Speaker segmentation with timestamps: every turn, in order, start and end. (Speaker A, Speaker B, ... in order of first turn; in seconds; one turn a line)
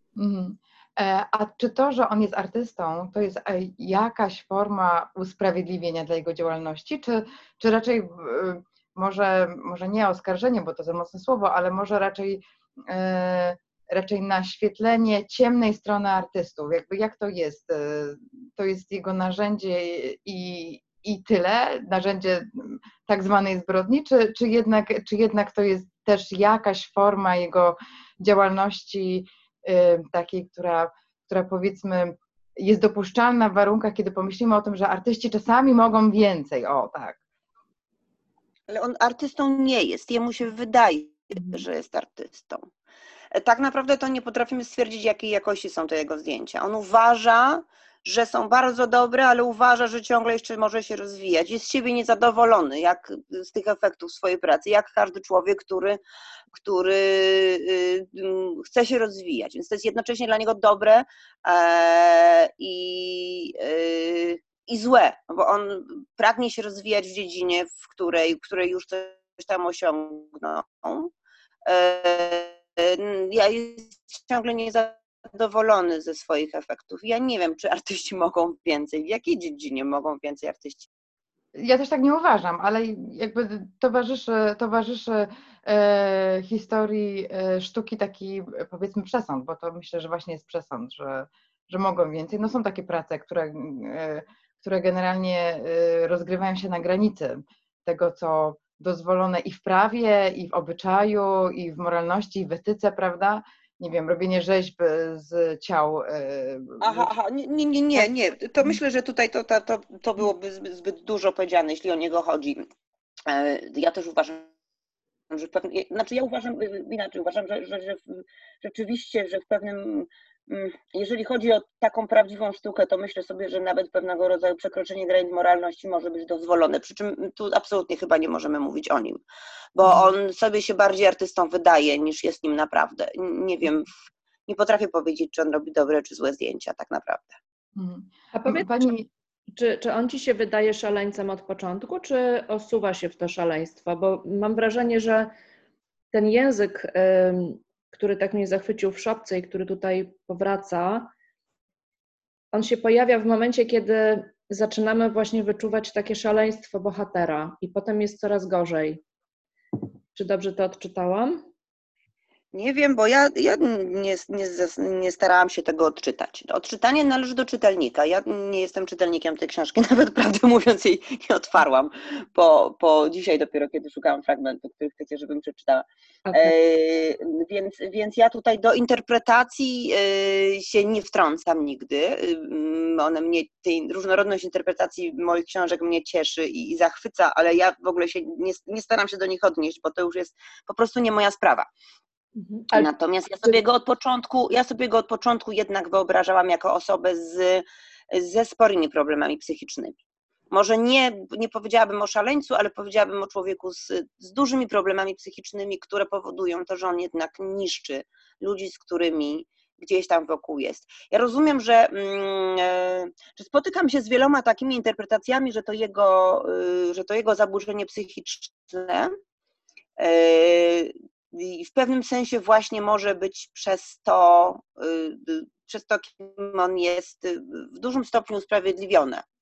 Speaker A: 0.2-37.2
Speaker B: 38.7-42.7
Speaker B: 43.3-56.0
Speaker B: 56.5-71.1
Speaker B: 71.7-80.9
Speaker A: 81.5-107.1
Speaker B: 106.8-112.7
Speaker B: 113.3-114.5
Speaker B: 115.3-129.2
Speaker B: 129.8-133.9
Speaker A: 129.8-130.1
Speaker B: 134.5-137.3
Speaker A: 137.8-139.1
Speaker C: 138.3-138.9
Speaker C: 139.5-145.3
Speaker C: 146.1-151.1
Speaker C: 152.5-159.0
Speaker C: 160.1-161.5
Speaker B: 162.5-191.7
Speaker C: 176.3-176.5
Speaker C: 192.4-192.9
Speaker B: 192.7-200.0
Speaker B: 200.5-219.1
Speaker B: 220.0-229.2